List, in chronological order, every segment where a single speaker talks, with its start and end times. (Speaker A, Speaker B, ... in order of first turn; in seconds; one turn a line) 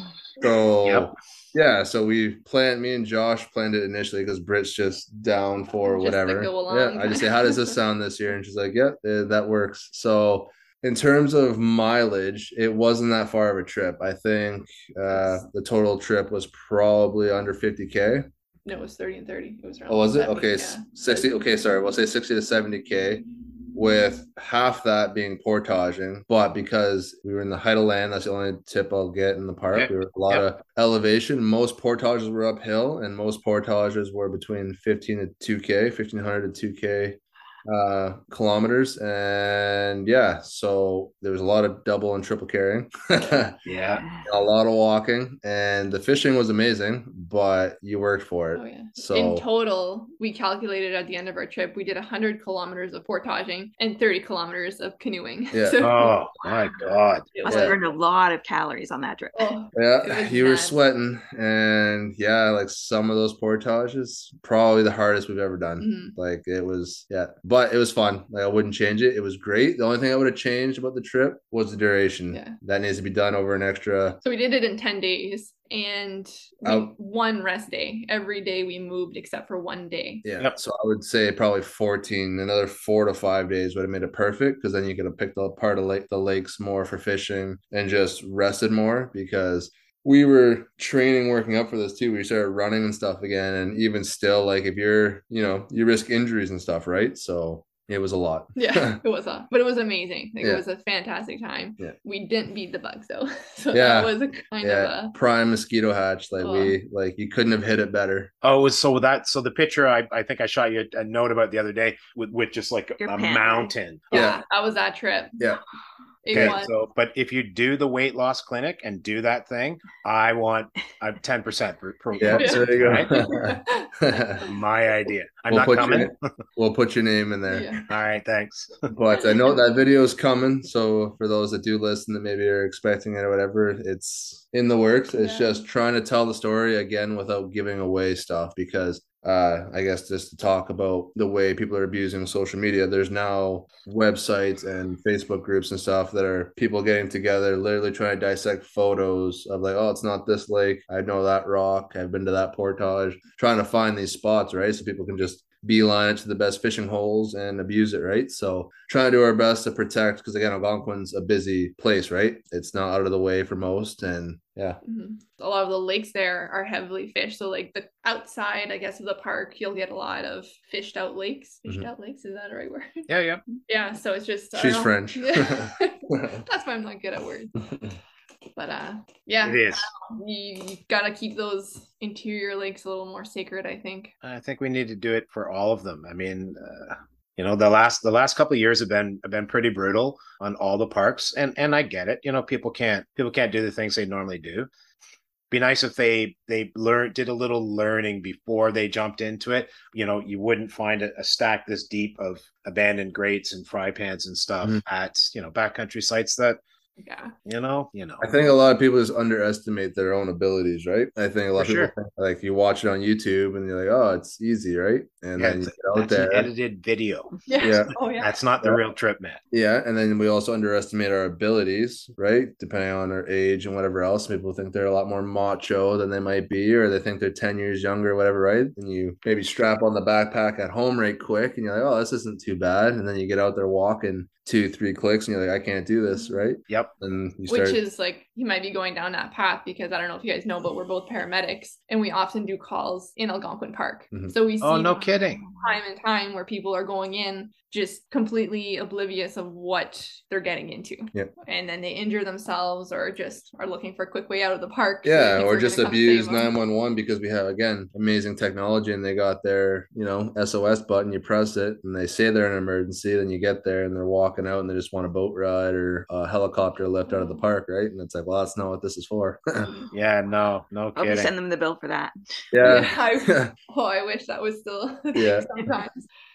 Speaker A: 0.4-18.3
Speaker B: 0.8-1.1
Speaker C: 5.8-7.7
Speaker C: 15.1-15.4
Speaker C: 18.6-21.3
Speaker A: 19.9-43.6
Speaker B: 29.7-30.4
Speaker B: 43.6-44.0
Speaker D: 44.0-44.3
Speaker A: 44.2-49.4
Speaker C: 48.5-56.2
Speaker A: 55.5-56.1
Speaker B: 55.8-57.3
Speaker C: 57.3-57.8
Speaker D: 57.4-59.5
Speaker A: 57.5-57.7
Speaker C: 59.4-60.8
Speaker A: 59.7-74.2
Speaker C: 65.8-66.1
Speaker C: 72.3-72.5
Speaker C: 74.2-80.2
Speaker A: 76.6-76.9
Speaker A: 80.2-99.0
Speaker C: 98.5-105.1
Speaker A: 103.7-108.3
Speaker C: 106.4-106.8
Speaker B: 108.4-114.3
Speaker D: 113.0-113.7
Speaker C: 114.1-115.4
Speaker A: 114.1-114.4
Speaker C: 116.2-116.7
Speaker B: 116.3-123.1
Speaker A: 122.2-124.5
Speaker C: 122.3-123.9
Speaker B: 124.4-126.2
Speaker A: 125.5-127.8
Speaker C: 127.5-127.8
Speaker B: 127.9-128.9
Speaker A: 128.9-164.8
Speaker C: 129.1-129.6
Speaker C: 135.2-135.6
Speaker C: 164.8-173.1
Speaker B: 173.1-173.4
Speaker C: 173.7-177.5
Speaker A: 174.5-176.4
Speaker C: 178.6-184.1
Speaker B: 179.4-179.9
Speaker B: 184.2-194.7
Speaker B: 195.5-206.6
Speaker C: 207.0-207.3
Speaker B: 207.4-208.2
Speaker A: 208.2-216.5
Speaker B: 211.5-211.9
Speaker B: 215.4-217.3
Speaker C: 217.5-218.3
Speaker A: 217.6-217.9
Speaker B: 218.2-219.4
Speaker A: 219.5-237.8
Speaker C: 236.1-236.4
Speaker C: 237.5-256.5
Speaker B: 244.6-245.4
Speaker A: 255.0-269.7
Speaker C: 267.1-267.4
Speaker B: 269.9-271.3
Speaker D: 270.9-272.1
Speaker A: 272.5-273.5
Speaker C: 272.6-276.1
Speaker A: 275.1-275.5